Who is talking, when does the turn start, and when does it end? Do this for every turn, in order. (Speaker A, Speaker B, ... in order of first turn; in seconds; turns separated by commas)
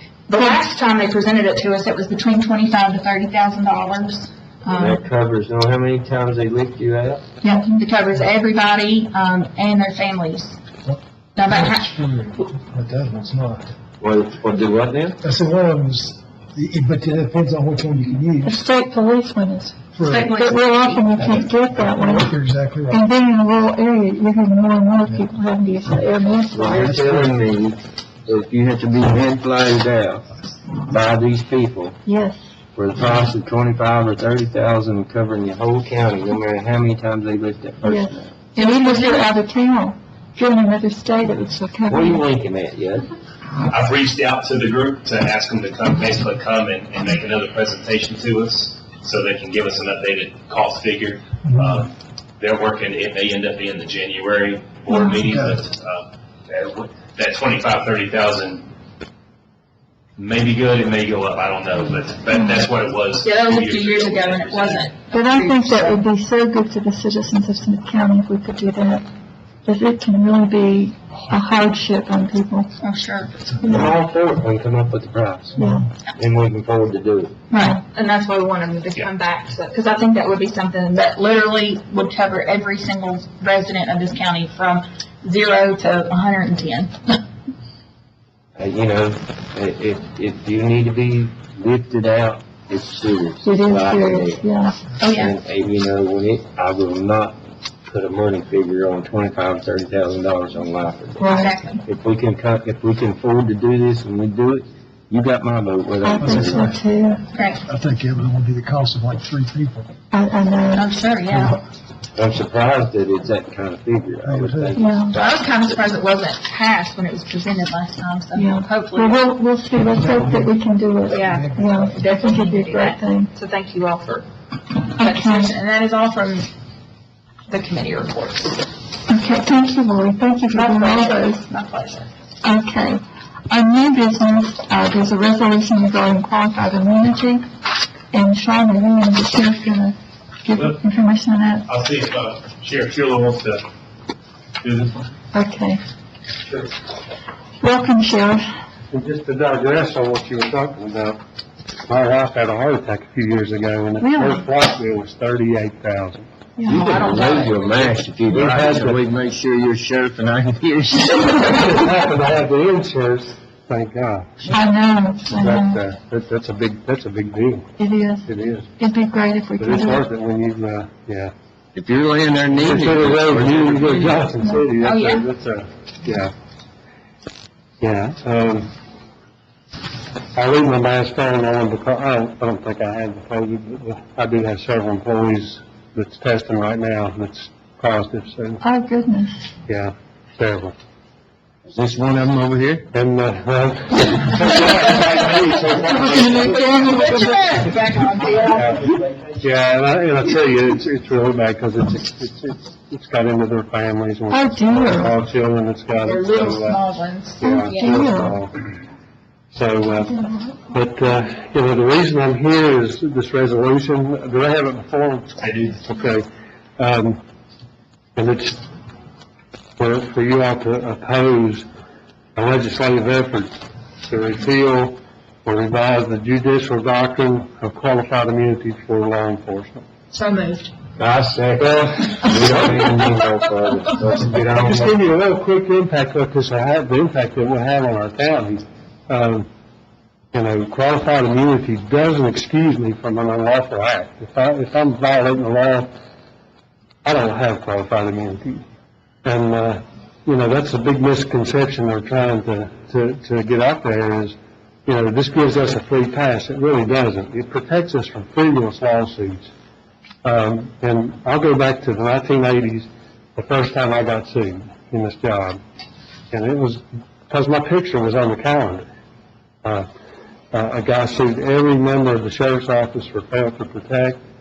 Speaker A: 0.3-5.0, Speaker B: 4.7-7.2, Speaker A: 7.4-10.6, Speaker C: 10.8-13.7, Speaker A: 11.3-11.9, Speaker B: 14.0-15.2, Speaker C: 15.2-18.6, Speaker D: 18.4-19.8, Speaker C: 19.9-20.3, Speaker A: 20.1-21.4, Speaker D: 20.3-22.3, Speaker C: 21.8-23.0, Speaker D: 22.9-27.1, Speaker B: 26.5-30.3, Speaker B: 30.9-31.9, Speaker D: 32.0-32.4, Speaker B: 32.7-38.3, Speaker D: 37.8-42.2, Speaker A: 38.6-39.3, Speaker B: 41.9-43.1, Speaker E: 43.7-58.7, Speaker C: 51.5-51.8, Speaker D: 54.9-55.2, Speaker C: 55.2-55.6, Speaker E: 60.2-65.0, Speaker A: 63.2-66.0, Speaker D: 65.1-69.0, Speaker D: 69.7-72.7, Speaker A: 72.8-73.3, Speaker D: 73.6-73.9, Speaker B: 73.6-75.6, Speaker D: 75.5-75.9, Speaker B: 76.2-77.3, Speaker A: 77.5-87.2, Speaker B: 88.5-94.5, Speaker D: 93.4-94.8, Speaker A: 95.0-95.3, Speaker B: 95.0-101.2, Speaker D: 101.2-101.5, Speaker A: 101.2-101.8, Speaker B: 101.8-106.7, Speaker D: 106.0-107.2, Speaker C: 106.2-106.8, Speaker A: 107.3-107.6, Speaker C: 107.6-109.9, Speaker D: 110.1-110.9, Speaker A: 110.7-111.6, Speaker B: 112.2-115.8, Speaker C: 114.2-114.8, Speaker D: 114.8-115.2, Speaker A: 115.1-119.2, Speaker D: 118.3-123.3, Speaker C: 120.0-120.5, Speaker A: 121.1-124.3, Speaker C: 121.2-122.0, Speaker A: 124.9-126.5, Speaker D: 125.0-125.5, Speaker A: 127.5-128.6, Speaker D: 129.1-131.4, Speaker A: 130.5-132.1, Speaker D: 132.4-137.4, Speaker D: 138.1-141.7, Speaker E: 141.7-143.6, Speaker E: 144.6-145.1, Speaker D: 145.3-145.8, Speaker D: 147.6-148.4, Speaker F: 148.9-151.2, Speaker F: 151.9-156.3, Speaker D: 154.0-154.5, Speaker D: 156.6-156.8, Speaker A: 156.6-157.9, Speaker B: 156.7-161.9, Speaker F: 158.3-159.0, Speaker F: 161.5-164.6, Speaker D: 164.5-165.8, Speaker F: 165.3-167.7, Speaker D: 167.8-170.1, Speaker F: 168.2-168.7, Speaker F: 169.6-171.3, Speaker B: 171.7-174.3, Speaker F: 172.5-176.3, Speaker A: 174.8-175.2, Speaker F: 177.8-178.7, Speaker F: 180.3-188.6, Speaker D: 188.6-189.4, Speaker F: 189.7-190.7, Speaker B: 191.7-192.9, Speaker F: 192.9-196.7, Speaker D: 195.8-197.6, Speaker A: 196.3-198.8, Speaker F: 198.6-198.8, Speaker F: 199.4-206.8, Speaker D: 204.3-205.2, Speaker A: 206.0-208.1, Speaker D: 207.4-208.4, Speaker F: 207.4-208.5, Speaker F: 209.5-216.3, Speaker D: 210.1-210.6, Speaker E: 215.4-215.9, Speaker F: 216.8-217.2, Speaker F: 218.2-218.6, Speaker F: 219.8-221.7, Speaker F: 222.3-223.5, Speaker F: 224.0-229.9, Speaker A: 230.1-230.7, Speaker B: 231.0-234.9, Speaker F: 232.4-233.0, Speaker F: 234.6-239.5, Speaker F: 240.3-245.9, Speaker F: 247.0-248.6, Speaker F: 249.2-259.5, Speaker F: 260.2-265.6, Speaker F: 266.3-268.9, Speaker F: 270.5-274.2